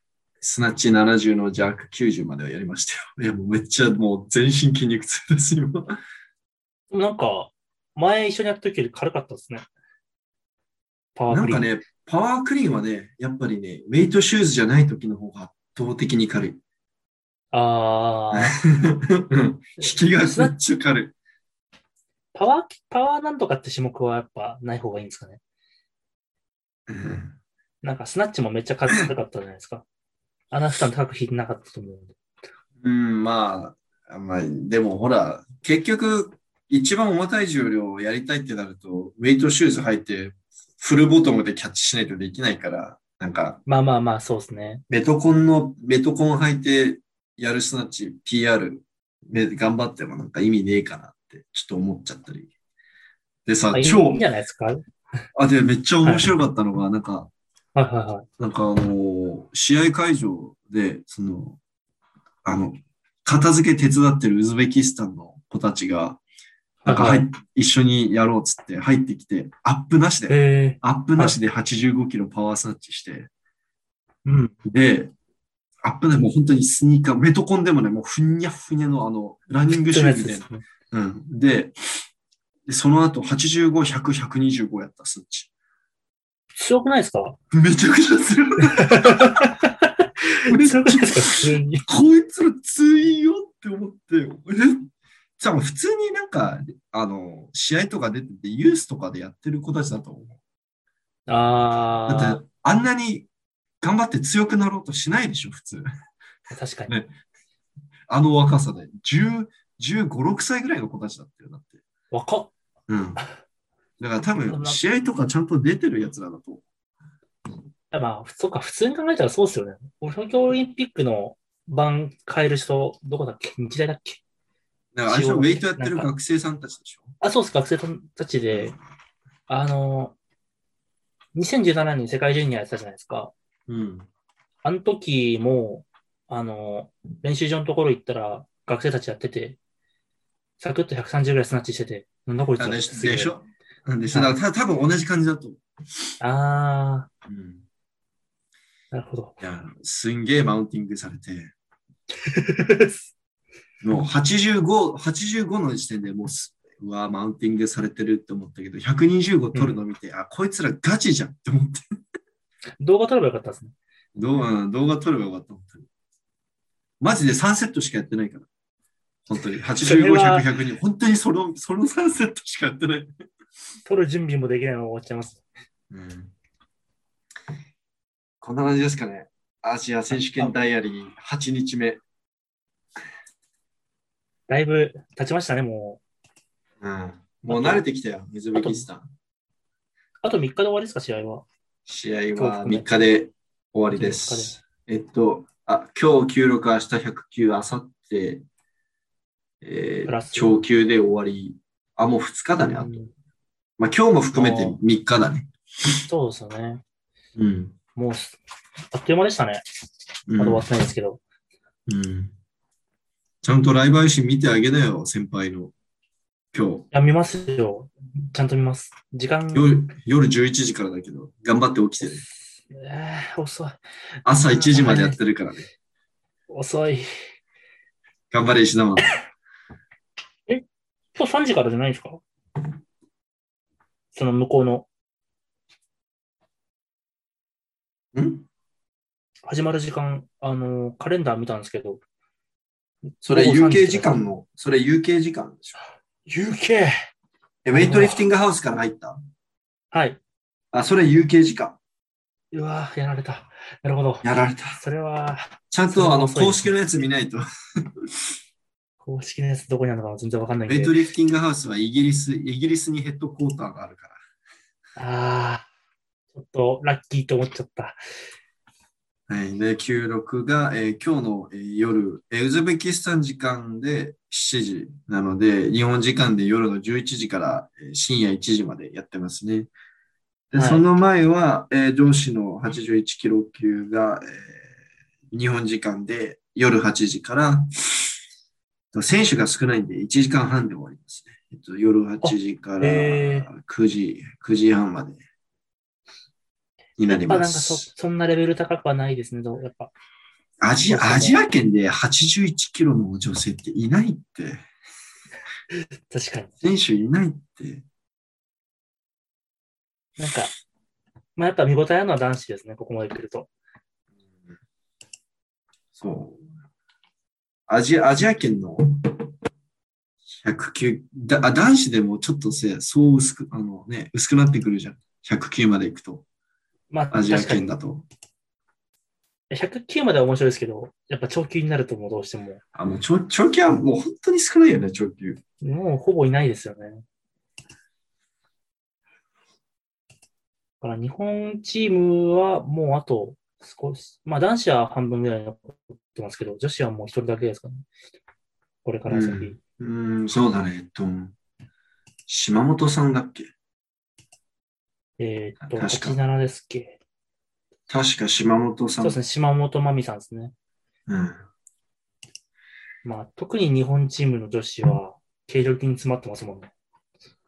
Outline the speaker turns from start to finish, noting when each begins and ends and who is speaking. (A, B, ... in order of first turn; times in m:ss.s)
0:00.4-0:06.0 A
0:06.9-0:09.6 B
0:11.2-0:11.7 B
0:11.3-0:16.6 A
0:17.5-0:18.6 B
0:18.3-0:21.1 A
0:19.8-0:20.5 B
0:22.3-0:25.4 B
0:26.9-0:27.4 A
0:27.8-0:29.8 B
0:30.5-0:32.1 B
0:32.8-0:43.6 A
0:43.6-0:44.8 B
0:44.9-0:52.5 A
0:53.4-0:54.2 A
0:53.7-0:54.8 B
0:55.3-0:57.3 A
0:57.7-0:58.3 B
0:58.4-1:01.6 A
1:02.4-1:06.2 A
1:06.8-1:07.3 B
1:06.9-1:13.3 A
1:10.3-1:11.4 B
1:14.2-1:14.6 B
1:14.6-1:15.1 A
1:15.8-1:21.7 A
1:19.7-1:20.6 B
1:22.7-1:25.5 A
1:26.6-1:27.4 B
1:27.5-1:29.5 A
1:28.6-1:31.8 B
1:30.5-1:34.9 A
1:35.4-1:40.4 A
1:41.3-1:42.4 B
1:42.1-1:43.3 A
1:43.8-1:45.9 A
1:46.5-1:47.0 B
1:48.1-1:51.8 A
1:52.1-1:52.5 B
1:52.9-1:53.2 A
1:54.0-1:56.6 A
1:54.4-1:54.8 B
1:57.9-2:04.2 B
2:04.9-2:07.1 A
2:05.1-2:06.1 B
2:07.2-2:08.7 B
2:09.5-2:10.1 B
2:11.3-2:13.3 B
2:13.7-2:14.1 A
2:14.6-2:19.6 B
2:20.6-2:23.3 B
2:22.6-2:25.6 A
2:26.2-2:27.1 B
2:27.3-2:27.6 A
2:28.9-2:29.3 B
2:29.4-2:31.5 A
2:32.2-2:33.0 B
2:33.8-2:41.8 A
2:39.5-2:39.8 B
2:42.8-2:43.7 B
2:44.2-2:45.9 A
2:47.0-2:48.5 A
2:49.3-2:53.1 A
2:49.8-2:50.5 B
2:53.9-2:55.4 B
2:55.9-2:56.3 A
2:58.4-3:02.0 A
3:00.1-3:00.6 B
3:04.5-3:06.0 B
3:06.8-3:09.1 A
3:07.5-3:07.8 B
3:08.6-3:08.8 B
3:10.2-3:11.4 B
3:11.9-3:18.4 A
3:12.4-3:12.9 B
3:13.9-3:14.6 B
3:19.6-3:23.0 A
3:20.0-3:20.6 B
3:22.7-3:23.1 B
3:23.8-3:25.5 A
3:24.3-3:24.8 B
3:26.1-3:26.8 B
3:27.4-3:27.8 A
3:27.9-3:28.4 B
3:28.9-3:29.6 B
3:30.3-3:30.6 A
3:30.4-3:31.2 B
3:31.9-3:32.3 A
3:33.4-3:35.7 A
3:36.5-3:36.9 A
3:36.9-3:39.8 B
3:39.5-3:42.2 A
3:42.7-3:43.8 B
3:44.2-3:45.6 A
3:44.5-3:45.2 B
3:46.5-3:47.1 B
3:48.3-3:49.1 A
3:50.5-3:52.2 B
3:54.1-3:54.9 B
3:58.1-3:58.5 A
3:59.5-4:02.0 B
4:03.2-4:05.8 A
4:03.3-4:04.2 B
4:06.3-4:07.0 B
4:07.6-4:09.2 A
4:07.7-4:08.2 B
4:09.9-4:10.2 B
4:10.7-4:11.8 A
4:12.5-4:14.3 B
4:14.2-4:14.8 A
4:14.8-4:16.7 B
4:15.7-4:17.4 A
4:18.0-4:18.3 A
4:19.0-4:21.0 B
4:20.7-4:24.2 A
4:25.0-4:25.6 B
4:26.3-4:28.0 B
4:29.3-4:39.7 A
4:40.5-4:44.6 A
4:40.5-4:40.8 B
4:45.3-4:47.7 A
4:48.9-4:55.2 A
4:52.2-4:53.5 B
4:57.0-4:57.9 A
4:57.0-4:59.9 B
5:00.6-5:04.6 A
5:00.9-5:01.4 B
5:05.7-5:06.5 B
5:06.6-5:07.8 A
5:10.2-5:10.5 B
5:11.4-5:13.5 B
5:16.0-5:16.4 A
5:17.7-5:19.3 A
5:20.4-5:26.2 A
5:26.9-5:27.7 B
5:27.1-5:28.0 A
5:29.5-5:32.6 B
5:32.7-5:35.4 A
5:35.6-5:37.0 B
5:40.8-5:47.8 B
5:48.8-5:49.6 B
5:49.1-5:51.3 A
5:52.3-5:53.5 A
5:55.2-5:57.0 B
5:55.6-5:56.2 A
5:57.9-5:59.2 A
5:59.0-6:00.5 B
6:01.1-6:01.4 A
6:03.0-6:06.7 B